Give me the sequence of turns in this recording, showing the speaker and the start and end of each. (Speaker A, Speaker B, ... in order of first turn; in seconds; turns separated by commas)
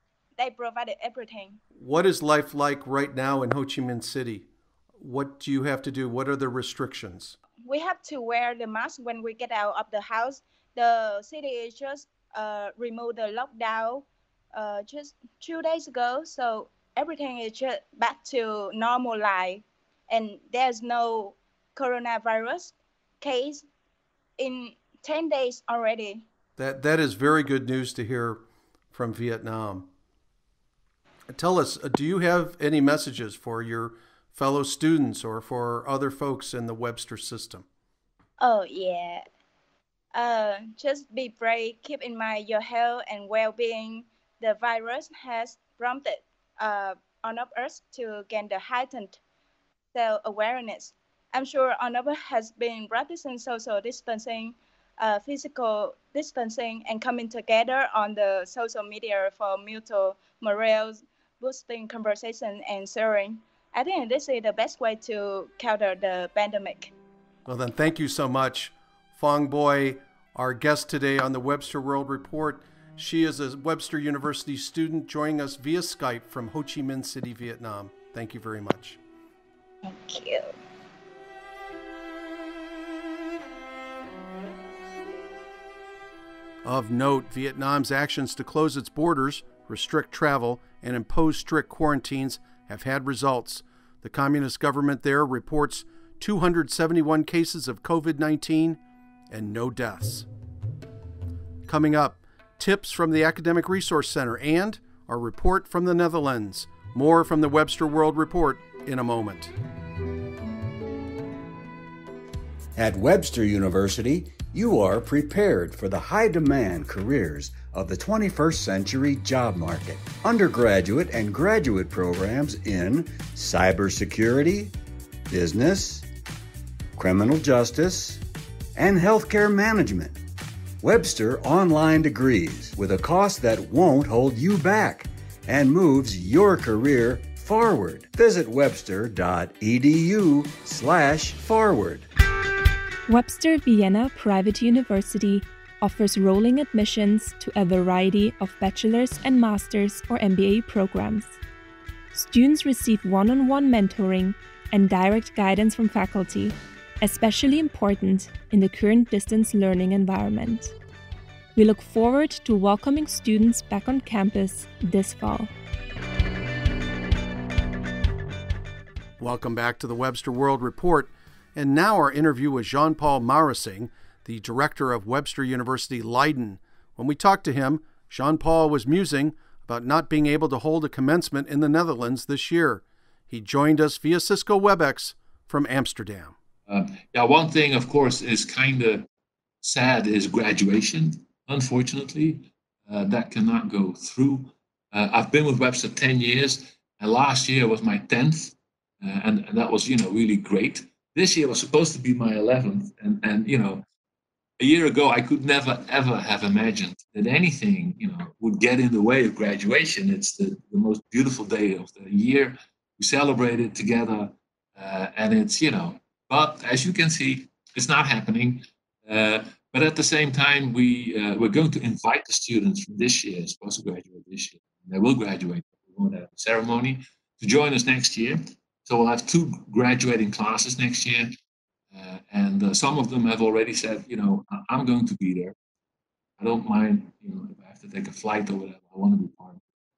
Speaker A: 0.4-1.6, Speaker B: 1.8-4.5, Speaker B: 5.0-7.4, Speaker A: 7.6-23.7, Speaker A: 24.4-26.2, Speaker B: 26.6-29.9, Speaker B: 31.3-37.6, Speaker A: 38.4-39.2, Speaker A: 40.1-49.2, Speaker A: 49.9-66.9, Speaker B: 67.5-79.0, Speaker A: 79.8-80.5, Speaker B: 86.6-100.3, Speaker B: 101.7-109.5, Speaker C: 112.8-124.7, Speaker C: 125.3-126.1, Speaker C: 127.0-128.2, Speaker C: 128.8-130.2, Speaker C: 130.8-142.1, Speaker D: 143.1-151.4, Speaker D: 152.1-160.7, Speaker D: 161.6-165.5, Speaker B: 169.2-186.4, Speaker E: 186.7-189.1, Speaker E: 189.6-203.8, Speaker E: 204.6-231.3, Speaker E: 231.9-235.6, Speaker E: 236.4-239.6